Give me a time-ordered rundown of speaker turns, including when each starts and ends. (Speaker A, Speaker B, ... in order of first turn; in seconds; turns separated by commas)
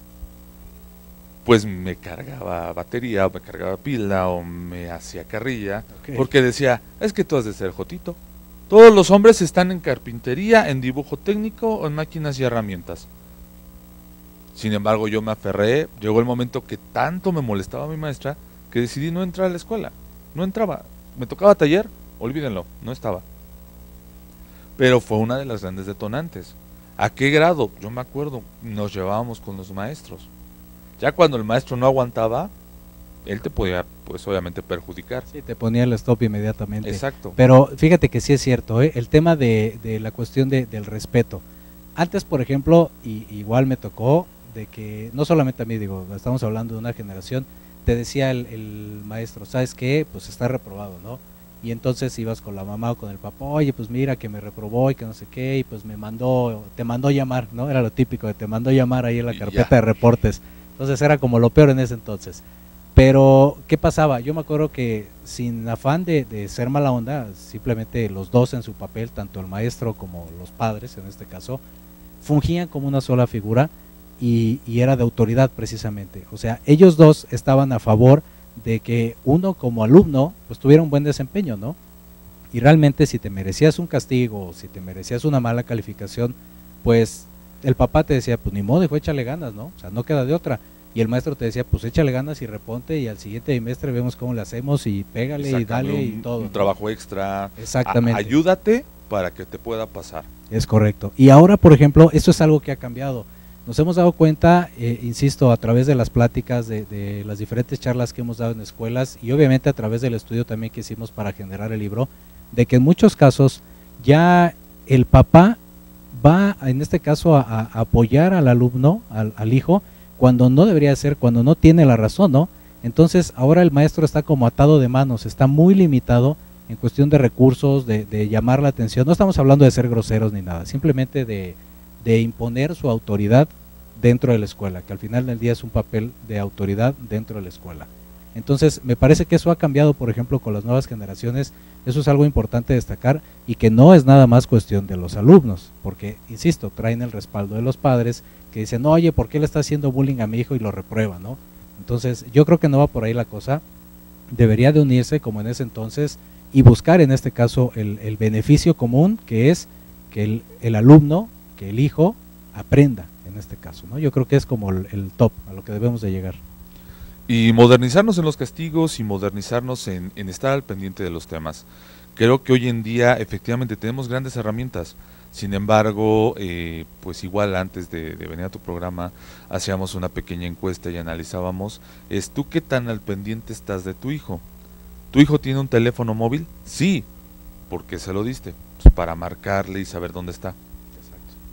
Speaker A: 1.4-8.2, Speaker B: 5.9-6.3, Speaker A: 8.7-13.1, Speaker A: 14.5-23.2, Speaker A: 24.8-30.3, Speaker A: 31.0-32.5, Speaker A: 33.2-35.3, Speaker B: 35.3-41.4, Speaker A: 36.8-37.4, Speaker B: 42.0-62.4, Speaker A: 59.3-59.7, Speaker B: 62.9-71.6, Speaker B: 72.2-81.8, Speaker B: 82.5-96.7, Speaker A: 95.4-100.3, Speaker B: 97.6-98.3, Speaker B: 100.5-115.6, Speaker B: 116.1-153.6, Speaker B: 154.3-166.4, Speaker A: 167.3-184.4, Speaker A: 185.1-187.1, Speaker A: 187.7-190.6, Speaker B: 190.9-191.3